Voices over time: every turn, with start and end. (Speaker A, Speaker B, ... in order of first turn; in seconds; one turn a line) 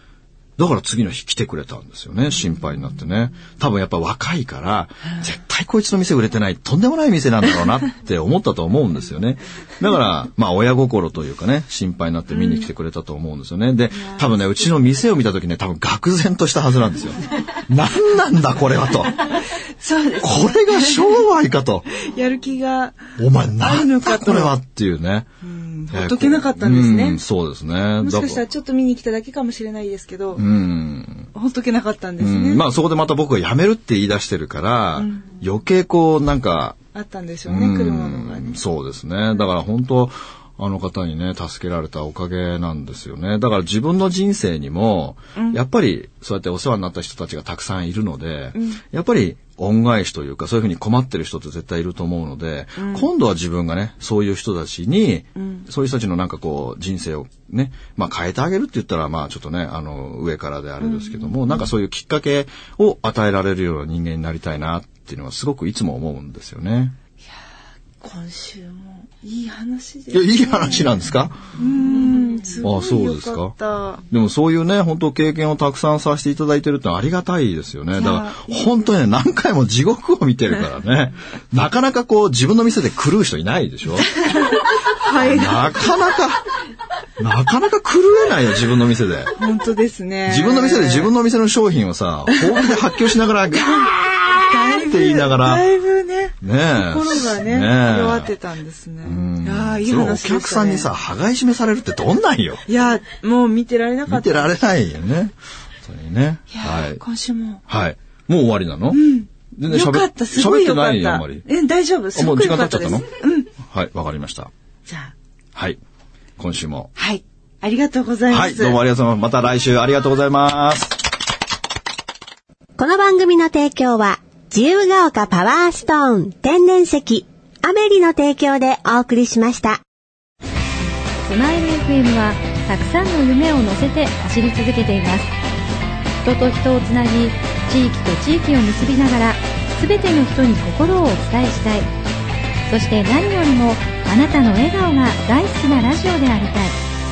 Speaker A: 0.6-19.4
Speaker B: 12.3-12.6
Speaker B: 13.9-14.5
Speaker B: 19.5-21.2
Speaker A: 20.2-21.9
Speaker B: 21.9-24.6
Speaker A: 23.2-25.3
Speaker B: 25.4-27.2
Speaker A: 25.9-28.4
Speaker B: 28.0-30.4
Speaker A: 30.4-31.3
Speaker B: 31.3-32.6
Speaker A: 32.2-36.8
Speaker B: 35.0-35.2
Speaker B: 36.9-38.6
Speaker A: 37.5-67.0
Speaker B: 48.5-48.8
Speaker B: 52.8-53.1
Speaker B: 55.4-55.6
Speaker B: 60.8-61.7
Speaker B: 68.0-71.0
Speaker A: 70.1-71.4
Speaker B: 71.5-74.0
Speaker A: 72.6-73.5
Speaker A: 74.1-84.1
Speaker B: 77.9-78.7
Speaker B: 84.1-85.7
Speaker A: 85.2-86.4
Speaker A: 87.2-89.3
Speaker B: 89.4-91.1
Speaker A: 90.2-95.7
Speaker B: 92.3-92.7
Speaker B: 93.6-100.9
Speaker A: 96.4-98.3
Speaker A: 99.0-102.6
Speaker B: 102.7-104.5
Speaker A: 104.1-107.0
Speaker B: 106.5-107.6
Speaker A: 107.7-109.0
Speaker B: 108.9-113.5
Speaker A: 109.5-111.5
Speaker A: 112.1-114.5
Speaker B: 114.9-115.1
Speaker A: 116.4-116.9
Speaker B: 117.0-118.8
Speaker A: 118.3-121.0
Speaker C: 122.8-129.8
Speaker D: 131.2-135.3
Speaker D: 136.2-141.9
Speaker D: 142.7-146.8